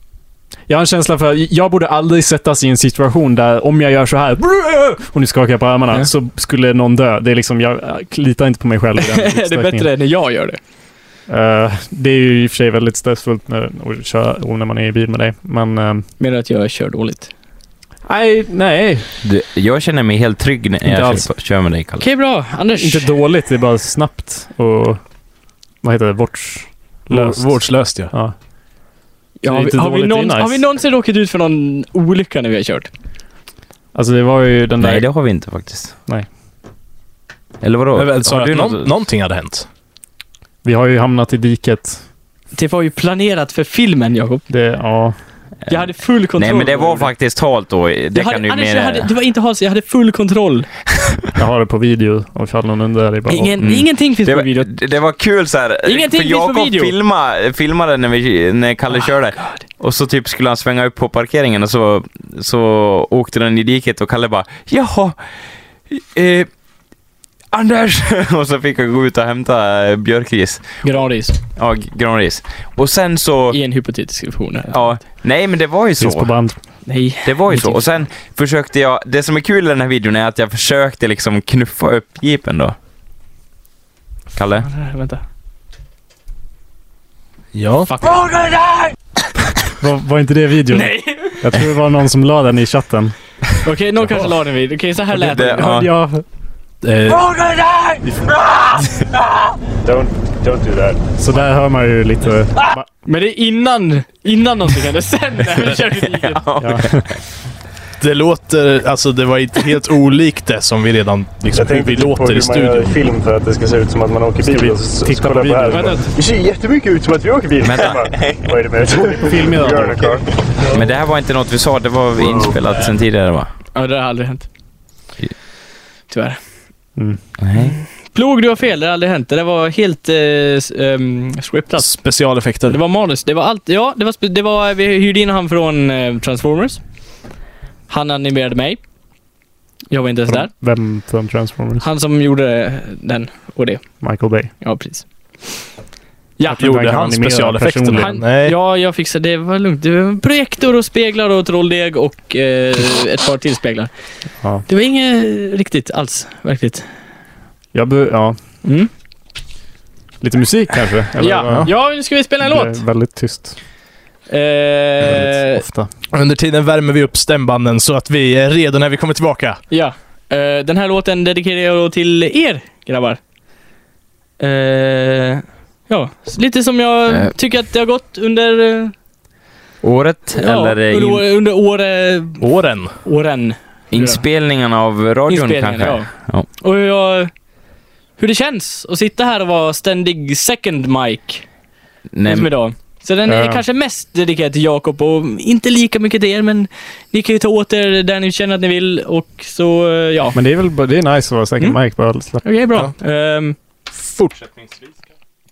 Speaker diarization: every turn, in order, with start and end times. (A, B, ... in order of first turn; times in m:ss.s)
0:00.7-0:09.9 A
0:09.0-0:10.6 B
0:11.3-0:16.1 A
0:16.2-0:17.3 B
0:18.0-0:19.0 A
0:19.2-0:22.0 C
0:20.8-0:21.3 A
0:22.0-0:23.1 B
0:22.8-0:25.0 A
0:25.8-0:28.3 A
0:27.1-0:28.1 D
0:29.4-0:32.9 B
0:29.4-0:30.6 A
0:33.9-0:35.1 A
0:34.8-0:36.0 C
0:37.6-0:38.9 C
0:37.9-0:39.7 D
0:40.6-0:42.0 A
0:42.5-0:44.4 B
0:44.5-0:45.2 A
0:45.7-0:47.1 B
0:46.4-0:49.1 C
0:48.1-0:50.7 B
0:51.4-0:53.6 A
0:53.3-0:54.7 B
0:53.6-1:05.2 C
0:55.8-0:56.9 B
0:58.9-0:59.6 B
1:05.9-1:06.5 C
1:07.5-1:10.8 C
1:10.8-1:11.4 B
1:11.6-1:13.6 C
1:13.5-1:15.0 B
1:14.7-1:16.3 C
1:16.0-1:16.6 A
1:16.8-1:17.8 B
1:17.2-1:22.7 C
1:24.3-1:24.6 C
1:24.6-1:25.2 B
1:27.5-1:27.9 D
1:27.8-1:28.9 B
1:29.6-1:33.1 A
1:30.7-1:31.7 B
1:33.6-1:35.7 B
1:35.2-1:35.9 C
1:35.4-1:36.2 A
1:36.8-1:37.2 D
1:37.1-1:38.0 B
1:39.9-1:41.0 E
1:41.2-1:42.9 A
1:43.0-1:46.4 B
1:46.0-1:47.2 C
1:46.6-1:47.1 A
1:48.0-1:53.0 D
1:51.9-1:52.8 A
1:52.9-2:00.2 E
1:54.4-1:56.1 A
1:55.7-1:56.0 B
1:57.6-1:58.5 C
1:59.0-2:00.2 A
2:00.7-2:03.5 C
2:03.7-2:04.4 B
2:06.1-2:06.4 B
2:07.4-2:07.8 C
2:07.6-2:11.9 B
2:11.8-2:12.8 D
2:12.7-2:16.8 B
2:17.9-2:18.8 B
2:19.9-2:20.5 B
2:20.3-2:21.8 A
2:21.8-2:24.0 B
2:24.0-2:24.5 A
2:24.6-2:25.0 B
2:26.4-2:26.7 B
2:26.4-2:28.2 A
2:26.6-2:28.6 D
2:28.0-2:33.9 B
2:34.7-2:36.9 B
2:37.7-2:38.4 A
2:38.6-2:38.9 B
2:40.2-2:41.8 A
2:41.2-2:42.8 B
2:42.4-2:43.6 A
2:44.3-2:45.6 B
2:45.0-2:45.9 A
2:46.1-2:49.6 D
2:49.7-2:53.2 B
2:54.4-2:58.9 B
2:59.8-3:01.2 C
3:00.4-3:02.4 B
3:02.4-3:03.0 D
3:03.0-3:04.2 B
3:03.9-3:06.5 C
3:05.3-3:07.3 B
3:08.2-3:11.4 B
3:12.1-3:12.5 C
3:12.2-3:20.4 B
3:13.2-3:13.6 A
3:20.3-3:22.4 A
3:22.4-3:23.6 B
3:24.0-3:24.5 D